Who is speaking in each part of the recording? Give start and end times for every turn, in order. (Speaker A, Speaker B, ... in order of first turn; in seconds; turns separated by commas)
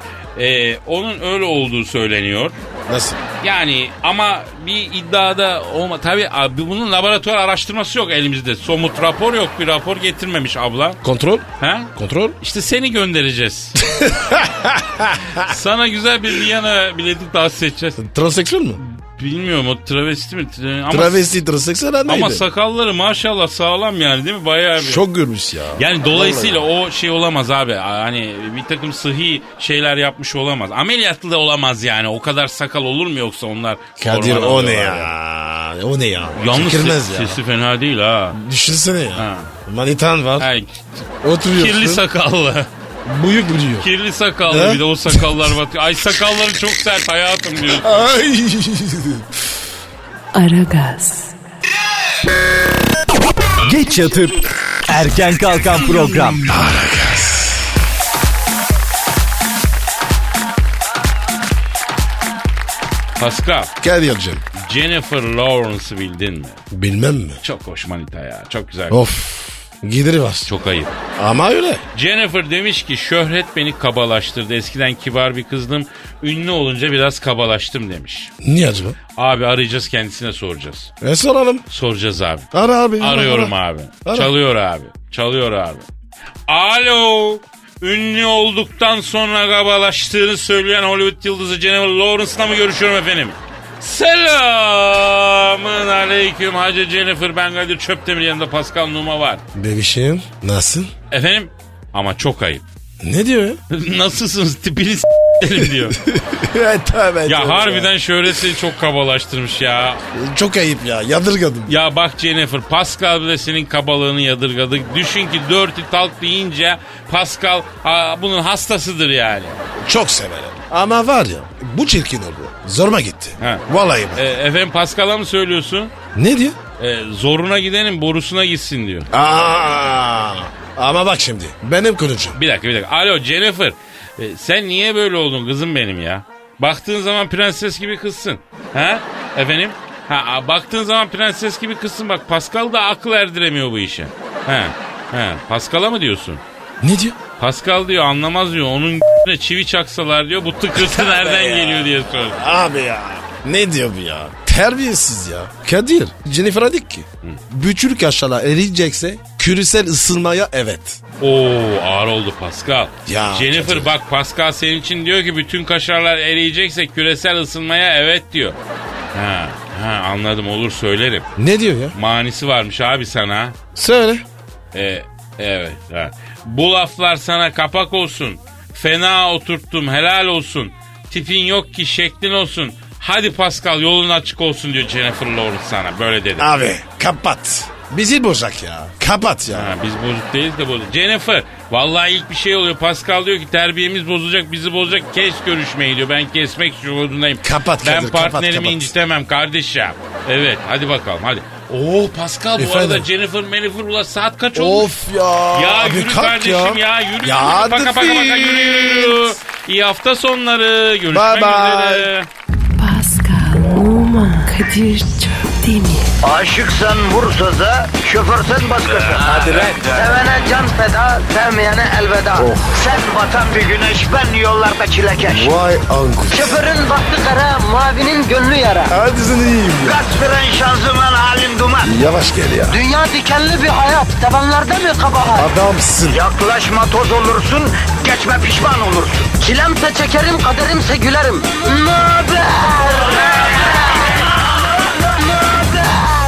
Speaker A: 0.4-2.6, Speaker B: 2.9-3.2, Speaker A: 3.4-11.0, Speaker B: 11.0-12.4, Speaker A: 11.6-13.8, Speaker B: 13.8-15.5, Speaker A: 15.3-18.0, Speaker B: 18.0-18.8, Speaker A: 18.8-21.3, Speaker B: 20.9-22.5, Speaker A: 22.1-25.0, Speaker B: 24.8-26.6, Speaker A: 25.8-35.1, Speaker B: 34.0-37.4, Speaker A: 36.4-38.4, Speaker B: 38.3-40.5, Speaker A: 39.1-39.5, Speaker A: 40.4-42.7, Speaker B: 41.2-42.0, Speaker B: 43.0-43.9, Speaker A: 43.8-48.0, Speaker B: 44.5-45.2, Speaker B: 47.8-49.3, Speaker C: 50.3-51.4, Speaker D: 53.6-56.5, Speaker B: 56.5-57.6, Speaker A: 63.2-63.7, Speaker B: 63.8-64.4, Speaker A: 64.5-66.6, Speaker B: 66.7-67.4, Speaker A: 67.4-69.1, Speaker B: 68.9-70.5, Speaker A: 70.5-71.0, Speaker B: 71.2-71.8, Speaker A: 71.9-78.3, Speaker B: 78.4-79.0, Speaker A: 79.2-80.9, Speaker B: 81.0-81.7, Speaker A: 81.7-82.5, Speaker B: 82.5-83.5, Speaker A: 83.0-85.9, Speaker B: 84.0-84.3, Speaker A: 86.5-99.4, Speaker B: 99.5-100.9, Speaker A: 101.1-102.7, Speaker B: 103.0-103.6, Speaker A: 103.7-106.0, Speaker B: 105.9-107.9, Speaker A: 107.3-110.0, Speaker B: 110.1-111.8, Speaker A: 111.7-119.6, Speaker B: 119.8-124.3, Speaker A: 123.4-125.9, Speaker B: 126.2-126.6, Speaker A: 126.8-129.1, Speaker B: 129.1-132.4, Speaker A: 132.3-146.4, Speaker B: 146.8-147.2, Speaker A: 147.4-152.4, Speaker B: 150.8-161.0, Speaker A: 161.2-168.6, Speaker B: 163.1-163.9, Speaker A: 169.1-171.3, Speaker B: 171.4-172.0, Speaker A: 171.9-173.6, Speaker B: 173.8-174.2, Speaker A: 174.7-186.5, Speaker B: 186.4-189.8, Speaker A: 189.5-204.9, Speaker B: 197.4-198.9, Speaker B: 202.6-203.1, Speaker B: 204.6-209.4, Speaker A: 205.5-212.3, Speaker B: 211.1-212.1, Speaker C: 212.8-216.1, Speaker E: 216.2-225.6, Speaker B: 222.3-222.8, Speaker B: 225.3-226.6, Speaker E: 226.3-228.9, Speaker B: 228.9-230.0, Speaker E: 229.8-232.0, Speaker B: 231.8-232.8, Speaker E: 232.7-235.5, Speaker B: 235.4-236.2, Speaker E: 236.1-243.7, Speaker E: 245.4-246.0